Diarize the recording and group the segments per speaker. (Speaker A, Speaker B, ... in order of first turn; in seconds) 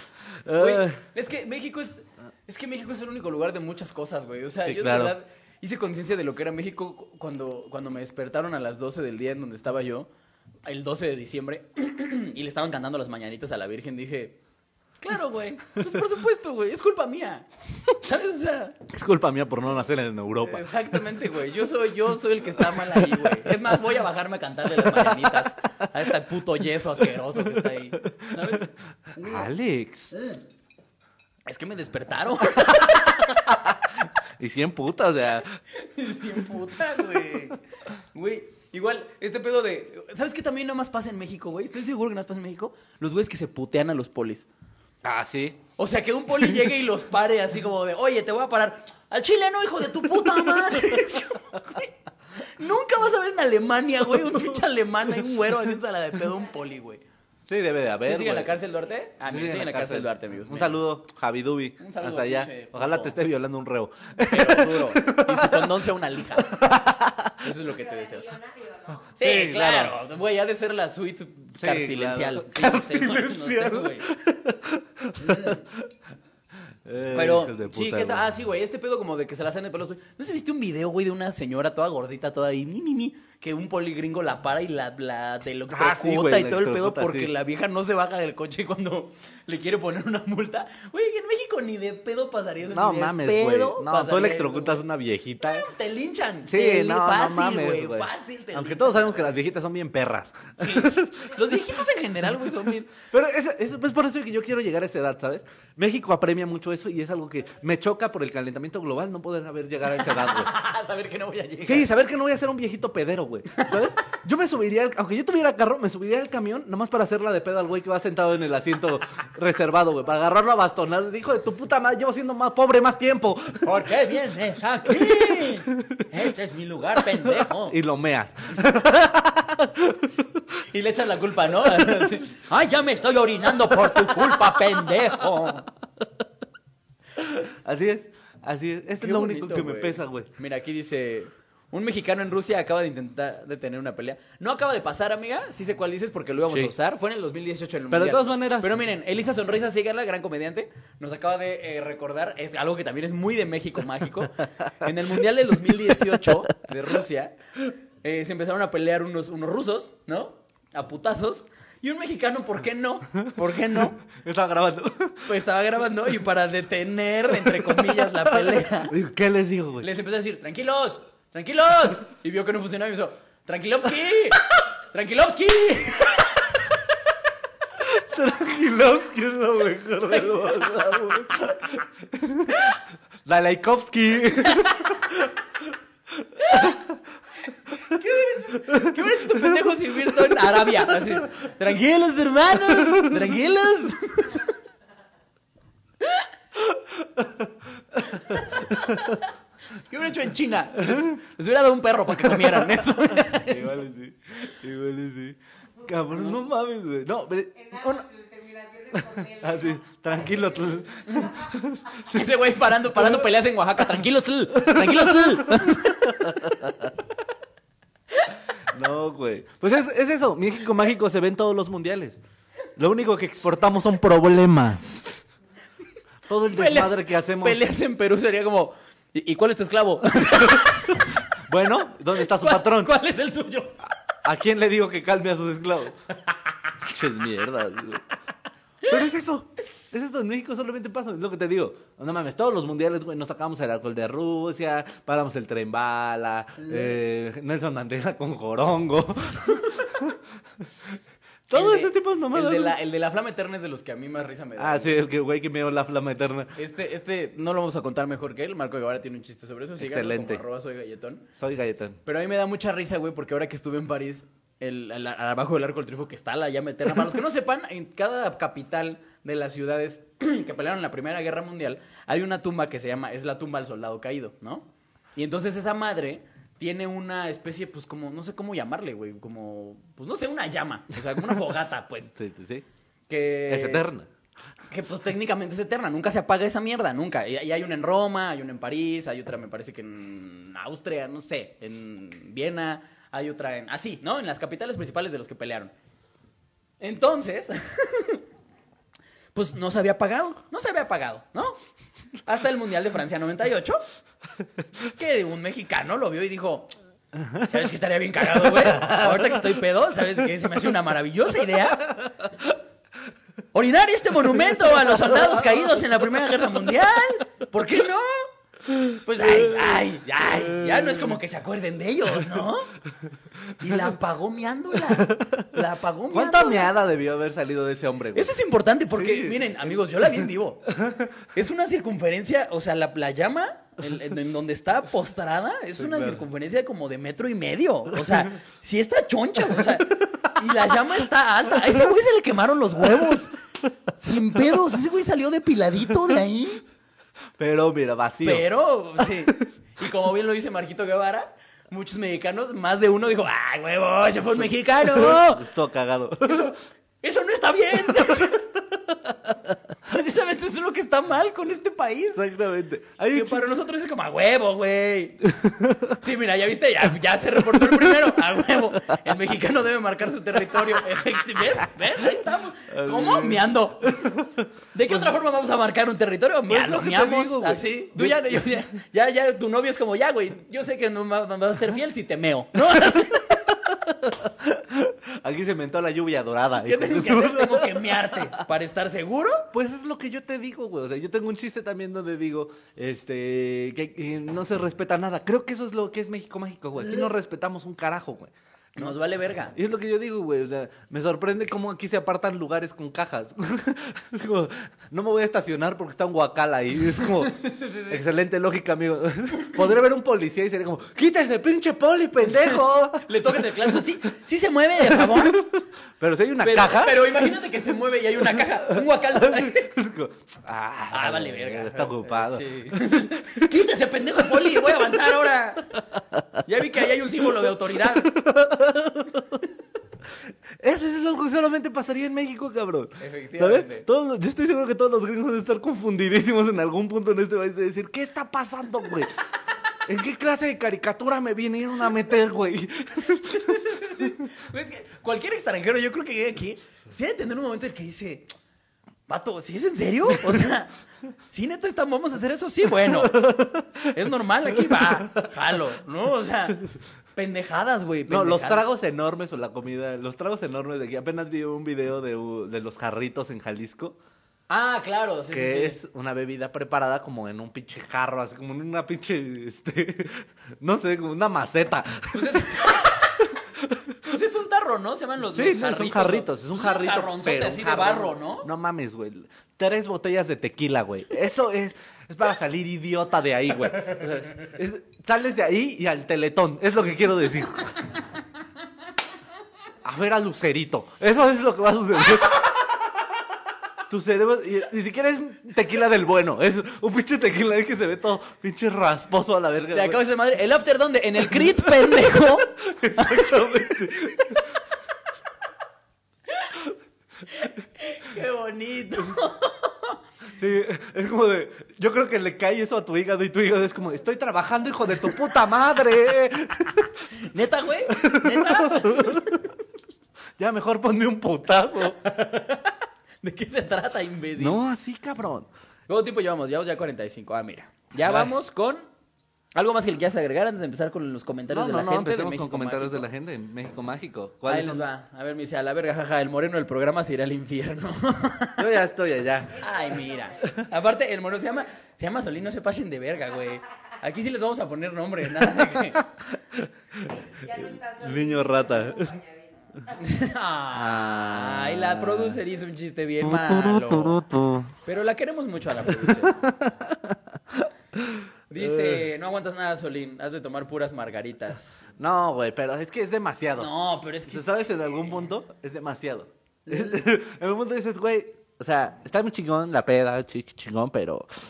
Speaker A: 0.5-1.0, 4.6-5.2, 18.9-20.8, 22.7-23.5, 24.8-25.3, 27.4-30.2, 32.7-33.8, 34.4-35.6, 45.0-45.6, 46.3-46.7, 50.4-51.2, 54.3-54.6, 57.5-58.6, 59.2-65.8, 66.4-67.4, 69.1-70.0, 71.6-75.9, 76.8-78.2, 85.7-87.3, 92.7-95.7, 96.5-101.8, 102.5-110.5, 111.6-123.9, 124.9-126.0, 127.2-130.4, 133.9-134.6, 137.2-140.3, 146.5-146.7, 147.9-148.8, 155.7-157.0, 163.3-165.3, 167.4-169.9, 177.8-185.5, 186.2-187.0, 188.4-189.6, 190.2-191.2, 196.6-199.2, 203.3-208.1, 208.9-212.4, 213.0-213.3, 214.6-216.9, 218.7-222.2, 222.8-225.2, 226.3-227.7, 231.4-232.9, 234.2-236.0, 236.8-238.1, 238.8-250.9, 251.5-252.8, 254.6-256.6, 259.8-260.4, 261.4-262.0, 282.1-282.6, 283.5-284.1, 307.1-307.5, 308.2-309.6, 314.6-315.4, 318.7-321.1, 324.9-325.5, 326.1-328.3, 328.9-331.2, 335.8-336.3, 347.4-348.5, 349.0-349.5, 354.8-356.5, 358.1-359.5, 362.1-363.5, 365.2-366.0, 372.7-375.1, 376.5-378.6, 382.8-388.4, 389.5-399.0, 399.5-407.4, 407.9-413.9, 414.8-417.2, 418.4-423.5, 427.8-429.4, 430.6-439.1, 439.9-444.2, 452.8-453.9, 454.6-455.3, 458.1-464.0, 465.3-474.0, 475.3-487.9, 489.8-492.6, 493.9-500.0, 501.3-501.9, 502.5-504.5, 510.4-517.0, 517.9-519.4, 520.4-522.0, 524.4-525.5, 528.0-528.3, 531.5-534.9, 538.6-539.7, 540.4-540.7, 546.0-549.2, 550.7-552.4, 553.2-554.7, 556.0-559.0, 562.0-563.7, 564.3-571.3
Speaker B: 0.6-10.1, 10.7-14.4, 15.0-18.8, 20.4-29.5, 30.1-30.4, 31.5-33.5, 35.7-37.6, 38.1-44.5, 45.8-57.0, 58.0-60.8, 61.8-63.2, 64.3-66.8, 67.4-68.3, 69.2-74.1, 75.2-75.6, 77.1-94.8, 95.4-99.4, 100.6-103.0, 109.9-111.9, 123.6-127.8, 130.7-135.7, 139.0-157.4, 158.0-164.0, 165.3-169.0, 169.8-176.6, 184.5-184.9, 186.4-186.8, 187.9-194.5, 196.0-196.3, 198.1-203.8, 211.1-211.3, 212.1-216.9, 226.5-231.3, 232.2-233.8, 246.6-246.9, 251.5-255.0, 256.6-261.3, 262.1-282.1, 283.1-283.9, 284.7-295.7, 296.8-298.2, 299.4-301.6, 302.2-303.8, 304.9-306.7, 307.4-312.1, 313.5-318.3, 318.9-322.7, 323.6-326.7, 328.1-330.7, 331.3-343.4, 344.0-346.6, 348.2-355.5, 356.2-358.5, 359.8-362.2, 363.1-365.3, 366.0-374.2, 374.7-383.4, 386.6-389.5, 398.8-399.6, 407.0-408.0, 412.2-415.5, 416.4-419.7, 420.9-425.9, 426.4-428.1, 433.0-433.9, 443.1-448.3, 449.1-450.8, 451.3-456.6, 457.2-458.6, 464.5-465.8, 472.1-473.3, 474.0-478.5, 499.7-503.9, 506.3-506.6, 507.3-510.0, 517.1-519.5, 521.9-524.6, 525.9-528.9, 529.5-533.0, 534.5-538.7, 539.6-546.1, 550.0-554.3, 554.9-556.5, 558.5-561.9, 563.6-564.7, 566.7-567.0
Speaker C: 67.7-69.1, 207.6-209.8, 539.5-540.6, 547.0-550.2